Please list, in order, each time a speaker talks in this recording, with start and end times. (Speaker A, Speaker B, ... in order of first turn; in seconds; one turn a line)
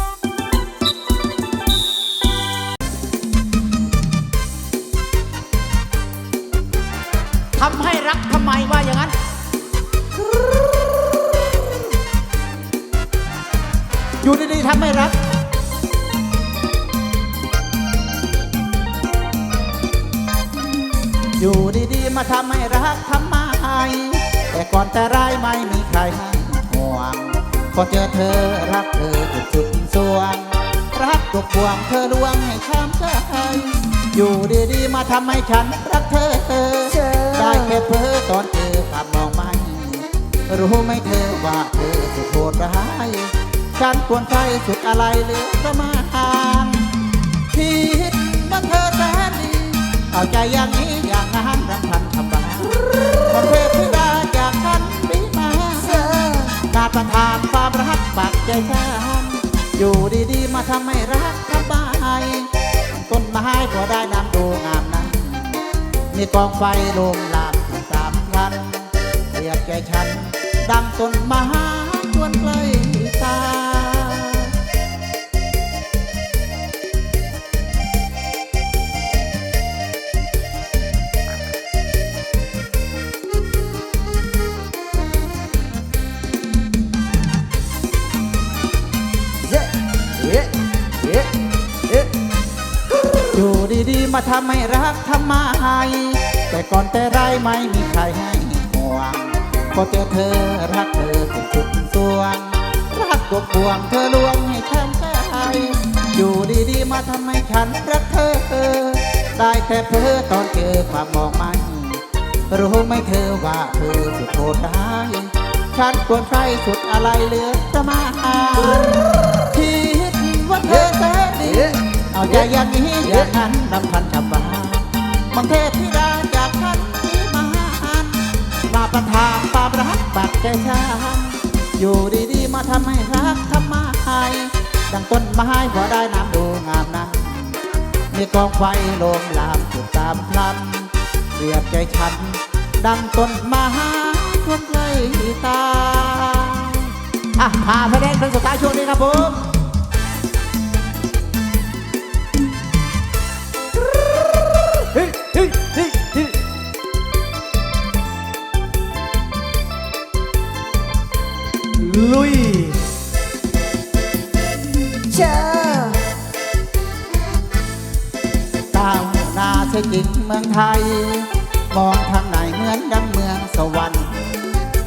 Speaker A: 7.6-9.1
Speaker A: 14.2-15.2
Speaker A: 21.4-46.9
Speaker B: 36.9-37.8
Speaker A: 47.5-56.0
Speaker B: 55.8-56.6
Speaker A: 56.6-65.6
Speaker A: 66.1-74.5
Speaker B: 89.4-91.3
Speaker A: 93.3-137.6
Speaker B: 120.6-122.5
Speaker B: 123.0-123.3
Speaker A: 138.1-149.5
Speaker B: 154.8-156.3
Speaker B: 161.7-162.8
Speaker B: 165.1-166.1
Speaker A: 168.7-174.6